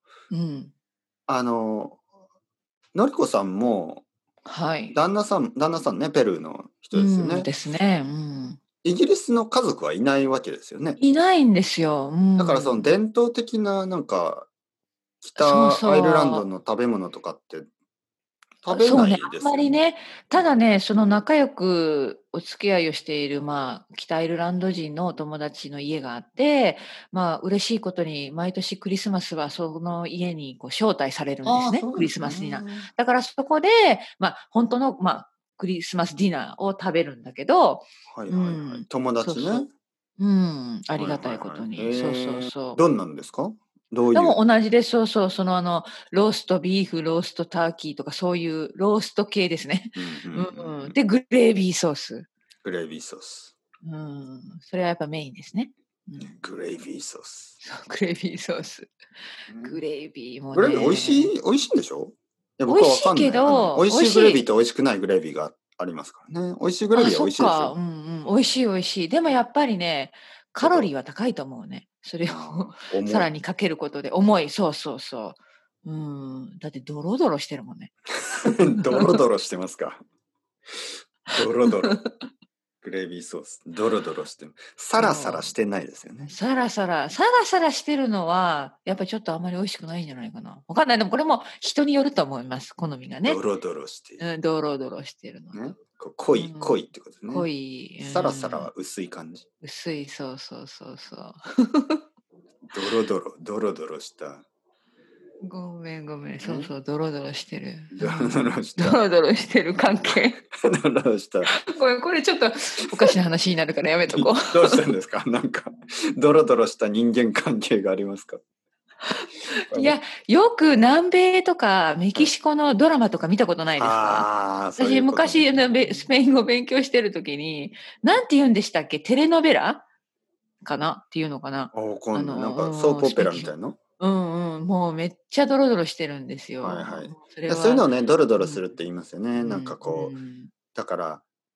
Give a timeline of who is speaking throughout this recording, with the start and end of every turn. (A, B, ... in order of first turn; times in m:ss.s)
0:00.3-0:00.7 A
0:01.3-0:02.0 B
0:03.0-0:04.0 B
0:04.4-0:05.0 A
0:04.9-0:07.5 B
0:06.9-0:08.6 A
0:08.8-0:11.0 B
0:11.0-0:12.9 A
0:12.4-0:14.5 B
0:15.2-0:17.7 B
0:15.4-0:16.5 A
0:18.6-0:19.8 B
0:18.7-0:39.7 A
0:31.4-0:32.9 B
0:38.1-0:39.7 B
0:40.2-0:42.8 A
0:40.9-0:44.4 B
0:44.1-0:52.3 A
0:50.0-0:51.0 B
0:52.6-0:53.5 B
0:53.8-0:56.3 A
0:56.2-0:57.5 B
0:57.6-0:58.9 A
0:59.5-0:59.8 B
0:59.6-1:01.3 A
1:00.5-1:07.8 B
1:02.7-1:04.4 A
1:06.9-1:17.9 A
1:10.6-1:10.9 B
1:12.3-1:13.3 B
1:18.3-1:20.0 B
1:18.7-1:19.2 A
1:21.3-1:22.0 B
1:21.3-1:21.9 A
1:22.8-1:26.4 B
1:25.0-1:25.5 A
1:26.3-1:33.4 A
1:33.2-1:34.2 B
1:34.2-1:35.7 A
1:35.5-1:37.5 B
1:36.3-1:38.7 A
1:38.0-1:39.4 B
1:39.6-1:42.0 A
1:42.7-1:44.4 B
1:45.4-1:50.4 A
1:46.4-1:46.7 B
1:47.9-1:49.0 B
1:49.7-1:51.5 B
1:51.4-1:54.8 A
1:54.1-1:58.4 B
1:59.7-2:00.0 B
1:59.7-2:09.9 A
2:03.8-2:06.0 B
2:10.6-2:17.9 A
2:11.7-2:13.8 B
2:16.6-2:20.1 B
2:18.4-2:18.6 A
2:19.4-2:20.5 A
2:20.7-2:21.2 B